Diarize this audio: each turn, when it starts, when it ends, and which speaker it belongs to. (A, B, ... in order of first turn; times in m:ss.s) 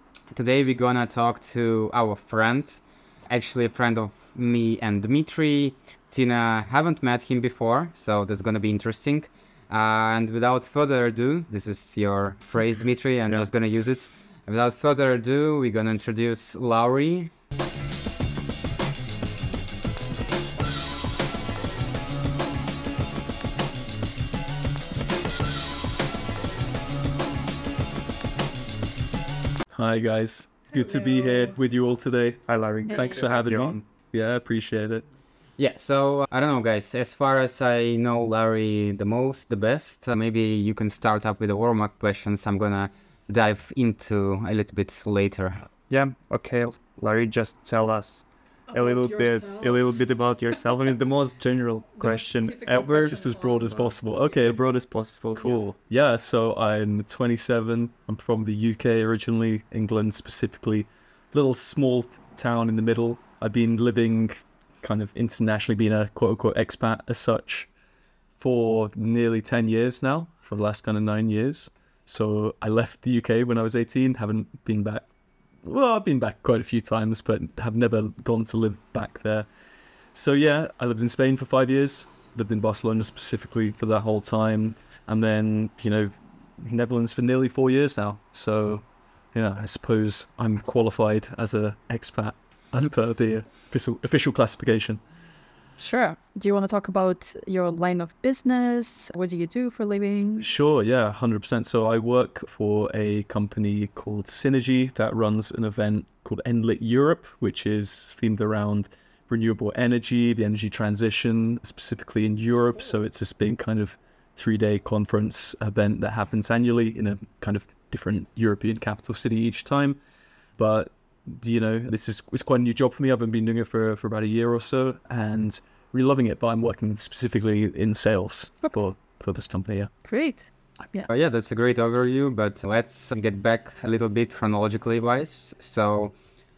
0:00.3-0:17.3 A
0:29.7-0:35.0 B
0:32.5-0:33.8 C
0:32.9-0:33.2 D
0:35.6-0:45.7 A
0:45.9-0:55.6 C
0:52.7-0:54.8 B
0:55.4-1:07.7 B
1:08.4-1:15.1 B
1:15.6-1:19.5 B
1:20.1-1:35.0 B
1:35.8-1:40.5 D
1:40.4-2:00.0 B
2:00.6-2:09.9 B
2:10.0-2:11.1 D
2:11.1-2:16.1 A